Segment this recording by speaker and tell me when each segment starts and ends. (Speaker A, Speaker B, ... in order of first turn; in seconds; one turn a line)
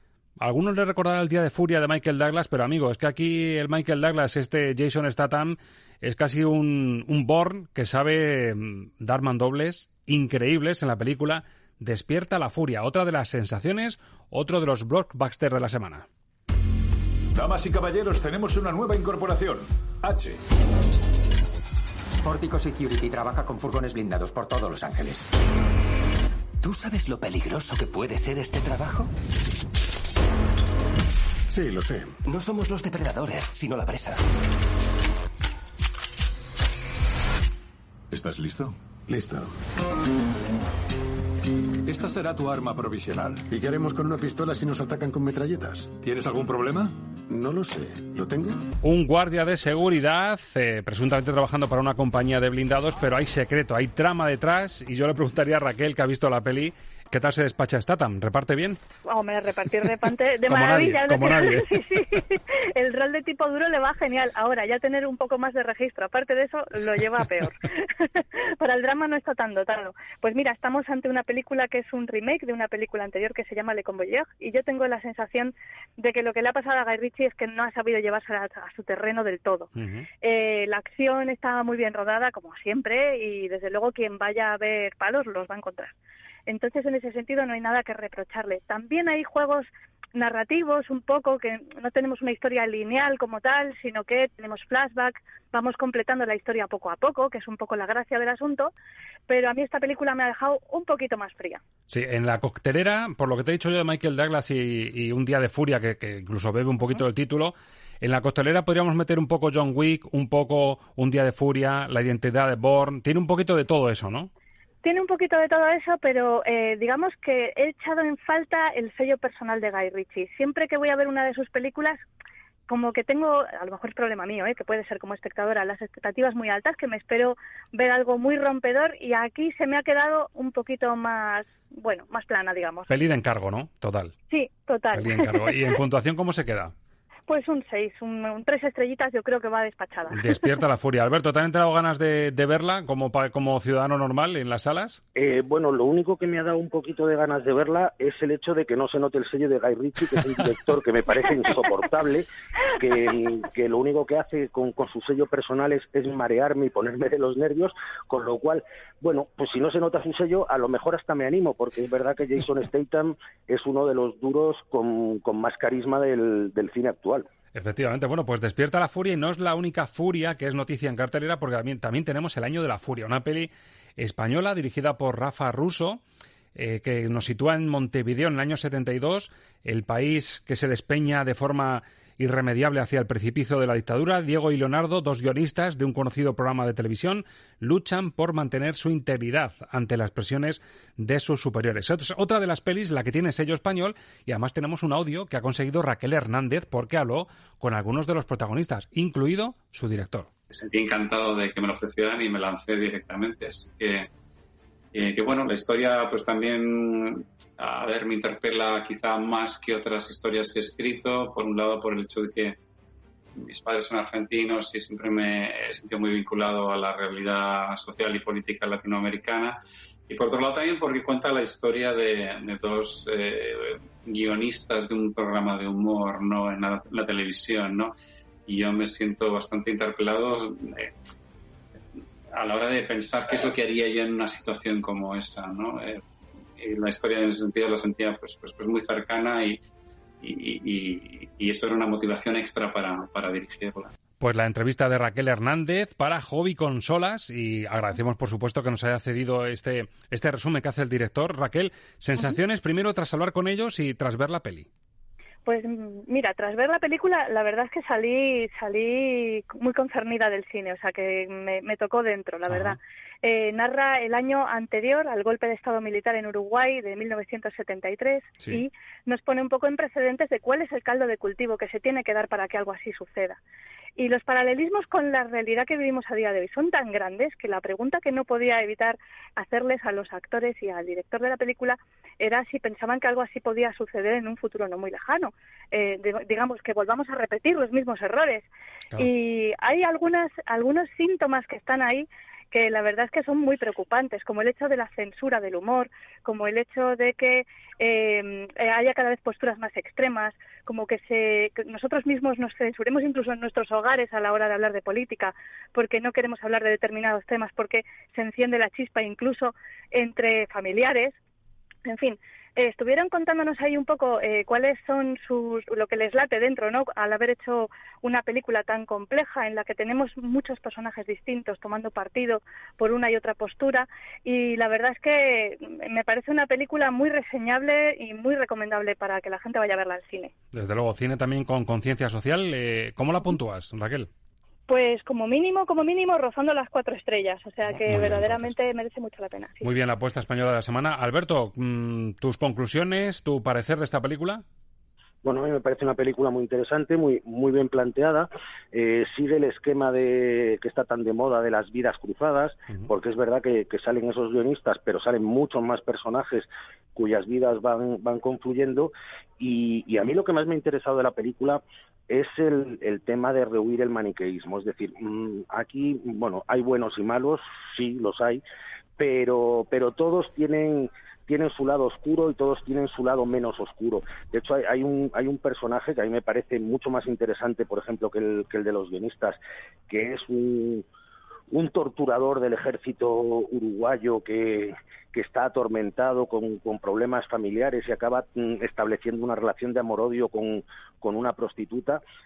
Speaker A: 0.4-16.1
Speaker B: 17.3-20.4
Speaker C: 22.2-25.3
Speaker C: 26.6-29.1
Speaker D: 31.5-32.2
Speaker C: 32.2-34.2
Speaker B: 38.1-38.8
Speaker D: 39.1-39.5
Speaker B: 41.9-43.4
Speaker D: 43.5-46.0
Speaker B: 46.0-47.0
Speaker D: 47.3-48.6
Speaker A: 48.8-58.8
Speaker E: 59.0-79.7
Speaker A: 60.5-61.8
Speaker A: 79.8-80.1
Speaker E: 80.2-86.0
Speaker E: 86.5-98.7
Speaker E: 99.3-101.6
Speaker A: 101.9-114.3
Speaker E: 114.8-122.0
Speaker E: 122.7-132.9
Speaker A: 132.9-134.1
Speaker E: 134.3-135.5
Speaker A: 134.9-136.7
Speaker E: 137.3-140.3
Speaker A: 140.1-145.0
Speaker F: 145.2-152.2
Speaker F: 152.8-167.3
Speaker A: 167.5-176.0
Speaker A: 176.5-200.3
Speaker G: 200.5-204.1
Speaker G: 204.9-212.6
Speaker G: 213.4-219.6
Speaker G: 220.1-227.9
Speaker G: 228.4-230.9
Speaker G: 232.3-236.0
Speaker G: 236.6-239.6
Speaker G: 240.2-243.9
Speaker A: 244.2-254.7
Speaker E: 255.4-273.4
Speaker A: 262.5-262.8
Speaker E: 274.0-311.2
Speaker E: 311.9-330.3
Speaker A: 330.5-334.1
Speaker E: 334.7-339.7
Speaker A: 337.9-338.5
Speaker A: 339.6-344.4
Speaker F: 345.2-368.4
Speaker F: 369.0-380.8
Speaker F: 381.5-392.0